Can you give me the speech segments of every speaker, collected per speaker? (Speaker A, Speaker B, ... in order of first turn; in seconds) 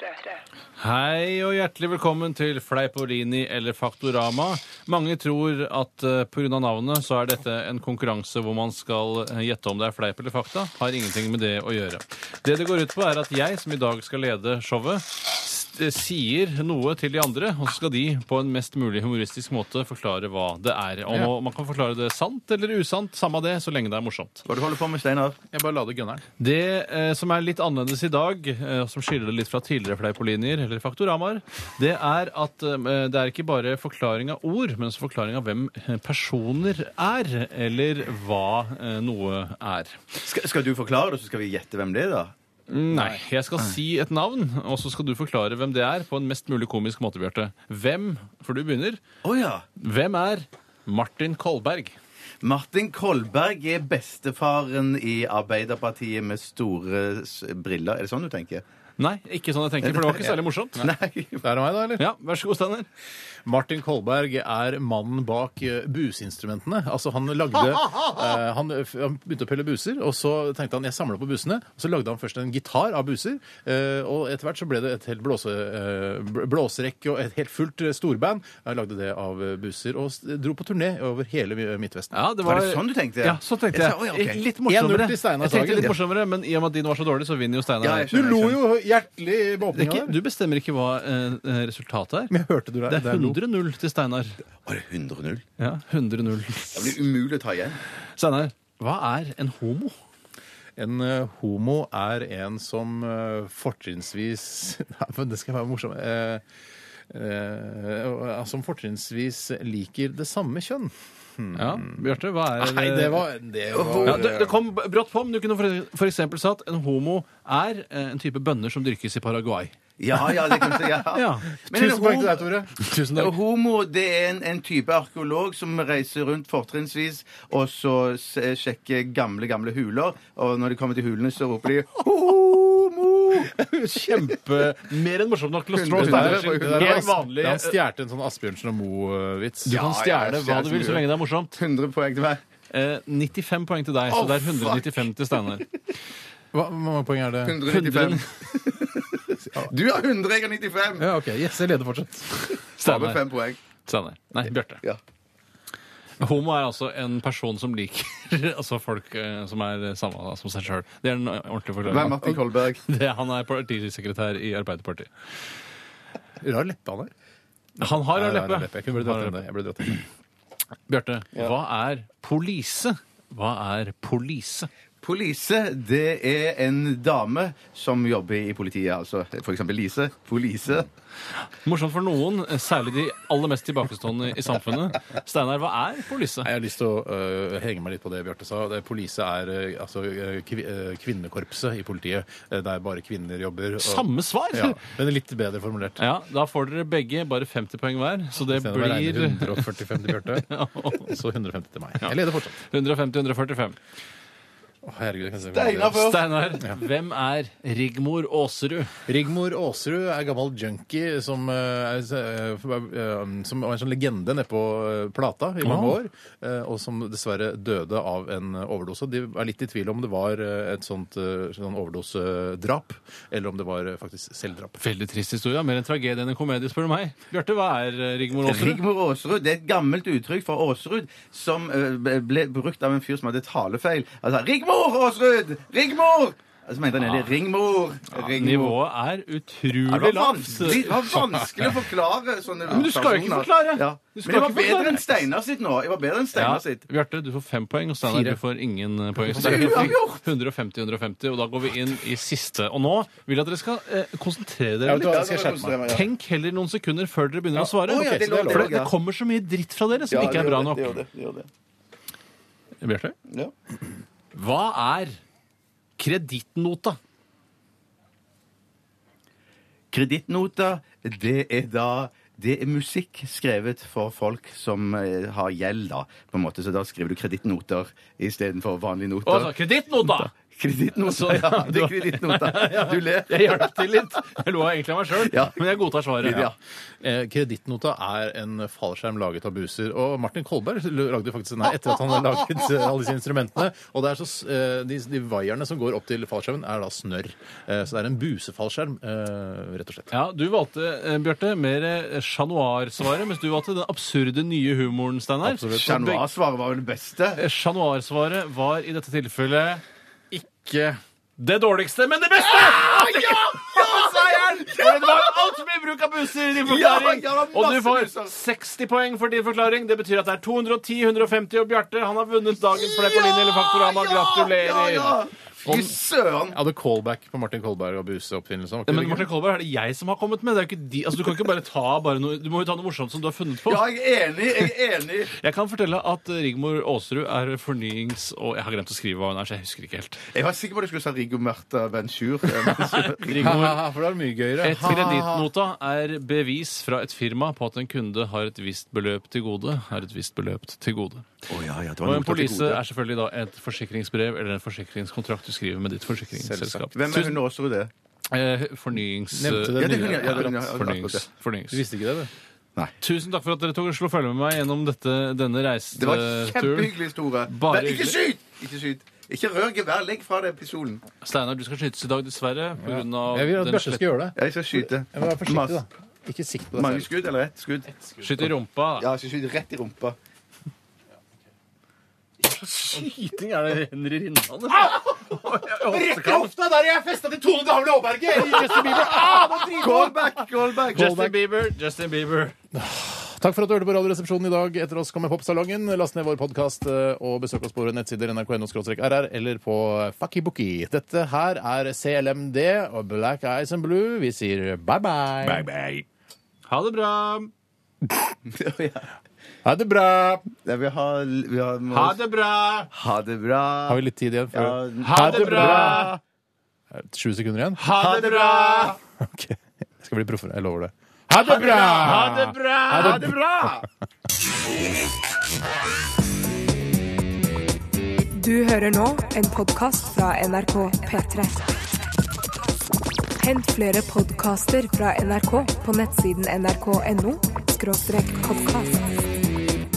Speaker A: 0.8-24.4, 26.4-40.1, 42.7-49.0, 49.8-52.0, 59.0-60.9, 62.0-62.9, 82.1-88.2, 89.7-92.3, 92.9-94.4, 95.6-97.0, 98.2-99.9, 111.5-113.3, 114.0-119.8, 121.1-121.5, 122.8-123.3, 133.5-137.8, 139.6-141.6, 142.7-145.7, 147.7-148.3, 152.8-153.3, 153.8-154.8, 156.2-162.3, 162.8-165.1, 167.8-169.4, 170.9-174.7, 181.6-186.5, 193.8-194.8, 196.0-201.2, 202.0-203.8, 205.9-208.9, 215.6-216.0, 224.8-228.8, 237.0-237.3, 238.3-241.2, 242.7-245.2, 246.3-261.0, 262.8-263.1, 264.3-265.2, 266.0-267.0, 279.2-280.3, 280.9-286.5, 300.1-306.2, 307.4-309.8, 311.4-325.2, 328.9-333.9, 335.4-340.2, 342.6-343.8, 344.6-351.3, 352.0-357.4, 358.3-361.8, 363.0-368.2, 371.2-374.2, 378.2-379.1, 382.4-386.5, 388.4-390.1, 390.9-392.5, 406.7-407.5, 411.9-412.9, 415.0-416.1, 417.8-419.0, 421.4-423.7
Speaker B: 24.4-25.4, 40.2-42.3, 49.2-49.6, 52.4-58.6, 59.8-61.4, 82.4-84.4, 87.8-88.6, 94.6-95.4, 96.7-97.8, 113.7-114.4, 120.0-122.5, 123.1-133.5, 135.7-137.1, 139.7-142.4, 144.1-145.1, 147.4-151.1, 152.8-153.6, 161.8-162.8, 175.0-180.9, 205.5-206.5, 228.4-238.8, 239.9-246.8, 249.3-250.2, 254.9-256.1, 257.6-258.9, 260.1-261.5, 263.3-263.5, 269.9-279.5, 280.3-284.0, 285.1-285.6, 286.2-286.6, 305.7-307.4, 312.4-315.6, 316.6-318.3, 322.8-326.6, 333.6-335.3, 340.3-343.8, 351.5-352.8, 356.9-357.9, 359.7-361.2, 365.9-371.0, 374.4-375.8, 376.7-377.9, 379.0-380.2, 389.1-391.3, 405.6-406.0, 408.4-409.1, 410.6-412.2, 412.9-416.2, 417.9-419.0, 421.5-422.3, 422.9-423.9
Speaker C: 25.5-26.2, 42.9-43.2, 61.4-62.0, 63.4-82.2, 84.6-86.0, 88.1-90.1, 92.3-93.4, 100.8-106.4, 107.1-112.0, 112.6-114.5, 121.6-123.1, 135.9-139.8, 146.5-147.6, 151.0-152.5, 166.4-167.1, 167.8-170.0, 186.4-196.0, 198.5-202.6, 204.8-206.0, 209.1-224.8, 241.1-241.7, 248.0-248.4, 249.2-249.9, 254.8-255.8, 287.0-300.1, 305.4-306.0, 310.3-311.0, 325.7-325.9, 326.5-329.3, 343.3-345.4, 356.4-356.9, 359.3-360.6, 361.7-362.3, 372.8-377.1, 377.9-378.5, 384.9-390.3, 390.9-391.3, 392.7-405.7, 408.1-408.3, 409.6-410.5, 413.9-416.1, 416.9-417.9, 419.2-423.3
Speaker D: 428.3-431.6, 433.4-439.1